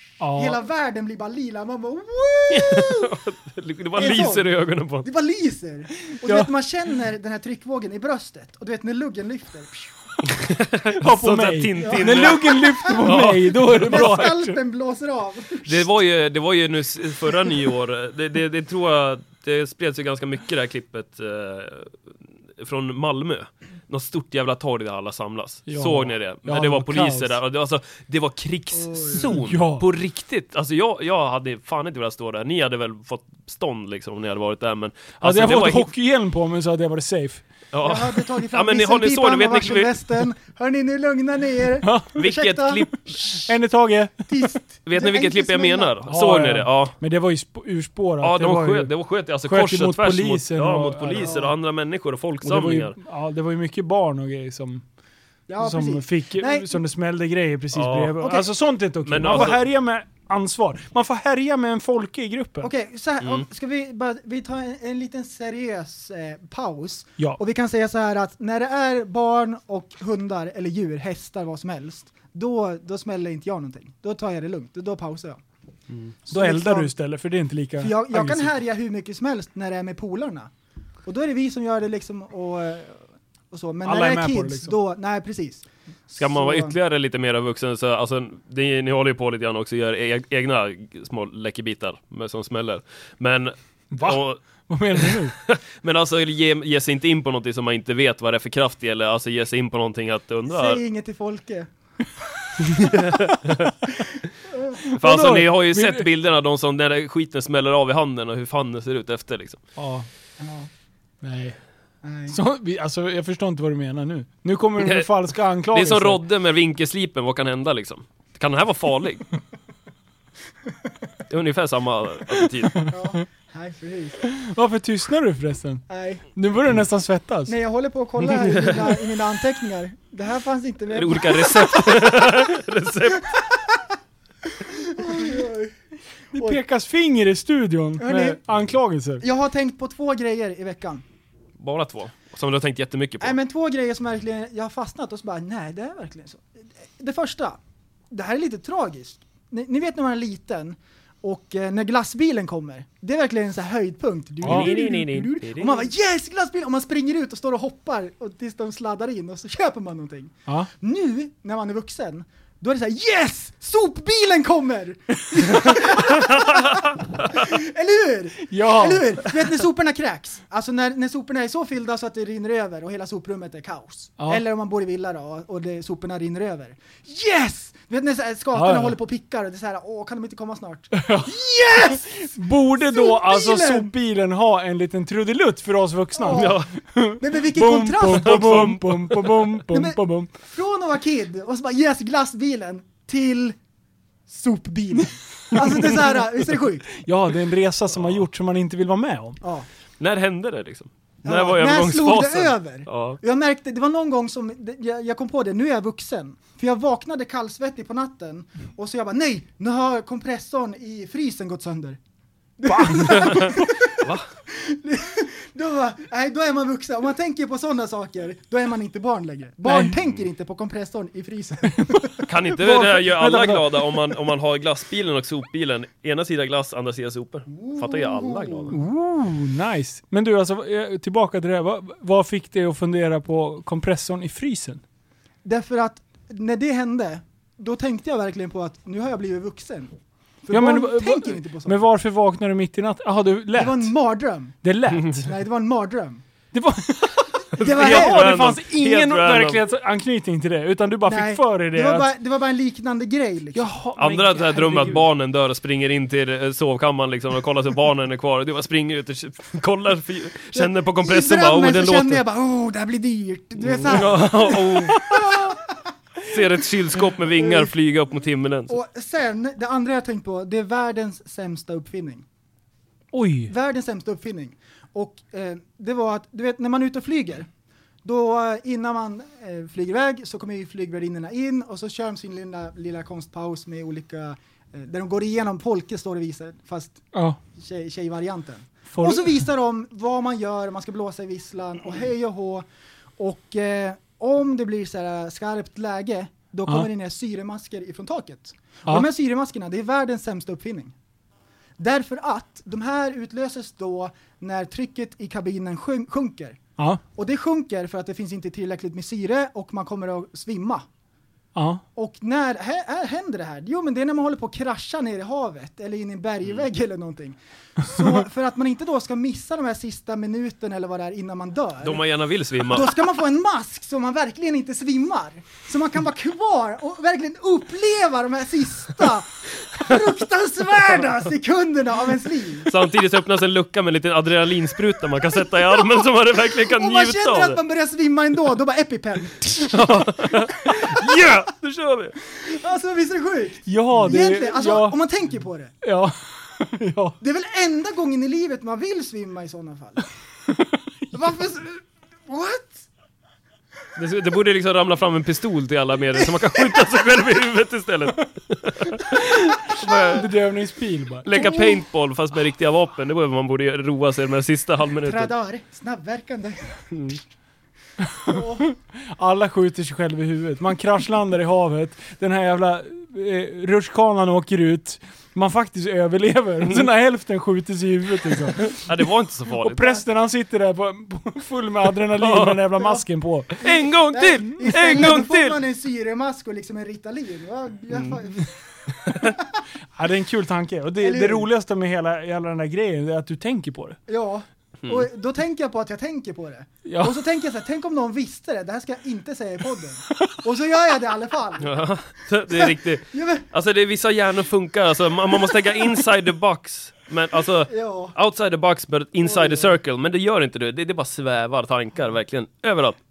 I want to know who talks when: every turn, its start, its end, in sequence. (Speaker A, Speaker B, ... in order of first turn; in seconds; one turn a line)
Speaker A: 0.2-0.6
Speaker B: 0.3-3.1
Speaker C: 2.5-5.0
Speaker B: 4.0-9.9
Speaker A: 6.1-6.5
Speaker C: 10.3-14.3
Speaker A: 11.0-14.6
Speaker B: 11.8-13.0
Speaker B: 13.8-15.9
Speaker C: 15.7-22.0
Speaker C: 22.6-35.9
Speaker A: 25.7-27.3
Speaker B: 28.7-29.4
Speaker A: 29.2-29.9
Speaker A: 35.2-37.4
Speaker C: 37.7-40.2
Speaker B: 37.8-42.9
Speaker A: 41.8-42.2
Speaker C: 42.2-43.5
Speaker A: 43.2-44.5
Speaker B: 44.3-46.0
Speaker C: 44.9-46.9
Speaker A: 46.1-48.9
Speaker C: 48.2-53.0
Speaker A: 49.4-51.4
Speaker B: 51.2-51.5
Speaker A: 52.4-54.8
Speaker B: 55.5-56.8
Speaker A: 55.6-62.7
Speaker C: 57.7-58.1
Speaker B: 58.2-58.5
Speaker C: 59.0-59.6
Speaker B: 62.6-75.4
Speaker B: 76.2-76.9
Speaker A: 76.3-78.5
Speaker B: 77.8-80.5
Speaker B: 81.0-86.7
Speaker A: 83.8-84.7
Speaker C: 86.2-94.4
Speaker A: 93.9-95.3
Speaker C: 95.0-100.8
Speaker B: 100.5-101.7
Speaker C: 102.7-103.7
Speaker B: 104.2-104.8
Speaker A: 104.8-106.0
Speaker C: 104.9-109.6
Speaker A: 109.8-110.1
Speaker B: 110.4-110.7
Speaker A: 111.2-111.6
Speaker B: 112.0-112.4
Speaker A: 112.3-116.2
Speaker C: 114.8-115.1
Speaker C: 115.7-119.3
Speaker C: 121.3-122.8
Speaker B: 122.9-124.2
Speaker A: 124.2-127.5
Speaker B: 125.9-126.2
Speaker B: 127.5-132.3
Speaker C: 128.3-129.0
Speaker C: 130.9-133.3
Speaker B: 133.3-133.7
Speaker B: 134.6-135.7
Speaker A: 136.3-139.2
Speaker B: 138.0-138.4
Speaker B: 139.2-141.0
Speaker C: 141.6-143.4
Speaker B: 143.2-147.6
Speaker B: 148.1-183.9
Speaker C: 154.4-155.9
Speaker A: 154.4-154.7
Speaker A: 165.4-166.0
Speaker A: 168.5-169.5
Speaker A: 178.5-179.0
Speaker A: 180.9-190.3
Speaker B: 186.1-186.6
Speaker C: 186.3-186.7
Speaker B: 187.2-188.8
Speaker C: 188.0-189.4
Speaker B: 189.6-193.6
Speaker B: 194.3-196.9
Speaker A: 195.5-196.2
Speaker A: 196.9-199.4
Speaker B: 199.4-199.7
Speaker C: 200.0-203.2
Speaker B: 201.2-212.0
Speaker B: 212.6-222.2
Speaker A: 212.7-213.7
Speaker C: 213.1-214.2
Speaker A: 219.6-219.9
Speaker A: 221.8-224.0
Speaker C: 222.2-228.8
Speaker B: 227.5-228.8
Speaker A: 228.7-234.8
Speaker B: 235.4-241.8
Speaker A: 240.5-243.9
Speaker B: 243.5-244.6
Speaker A: 244.6-245.3
Speaker B: 245.2-246.2
Speaker A: 246.5-252.1
Speaker C: 247.5-249.6
Speaker B: 247.6-248.4
Speaker B: 251.1-253.7
Speaker A: 253.5-255.1
Speaker C: 254.0-262.2
Speaker B: 260.5-265.8
Speaker C: 263.6-265.2
Speaker A: 263.9-265.4
Speaker C: 266.2-268.7
Speaker B: 268.7-272.2
Speaker A: 273.1-273.5
Speaker B: 273.5-277.5
Speaker B: 278.0-287.0
Speaker A: 287.1-287.4
Speaker B: 287.5-292.6
Speaker A: 288.9-289.3
Speaker B: 293.2-300.9
Speaker B: 301.8-306.6
Speaker B: 307.1-310.9
Speaker A: 311.5-311.8
Speaker B: 311.9-322.0
Speaker C: 321.8-322.9
Speaker B: 322.7-332.7
Speaker C: 332.7-337.6
Speaker B: 335.9-341.0
Speaker C: 339.7-342.1
Speaker B: 342.3-345.7
Speaker A: 343.6-345.0
Speaker A: 345.8-347.2
Speaker B: 347.2-350.1
Speaker A: 350.5-351.1
Speaker B: 351.1-352.9
Speaker C: 353.9-360.2
Speaker A: 359.7-361.5
Speaker C: 361.2-365.3
Speaker B: 361.3-361.8
Speaker B: 365.0-366.8
Speaker C: 366.9-367.2
Speaker A: 368.0-378.8
Speaker B: 368.2-368.6
Speaker C: 378.6-380.0
Speaker A: 379.6-383.6
Speaker C: 382.2-382.7
Speaker C: 383.6-385.6
Speaker B: 383.6-388.5
Speaker B: 389.1-389.6
Speaker A: 389.9-394.0
Speaker B: 391.0-391.5
Speaker B: 394.1-401.8
Speaker A: 396.8-397.2
Speaker C: 401.6-413.0
Speaker B: 402.5-403.4
Speaker B: 407.7-408.1
Speaker B: 409.2-409.8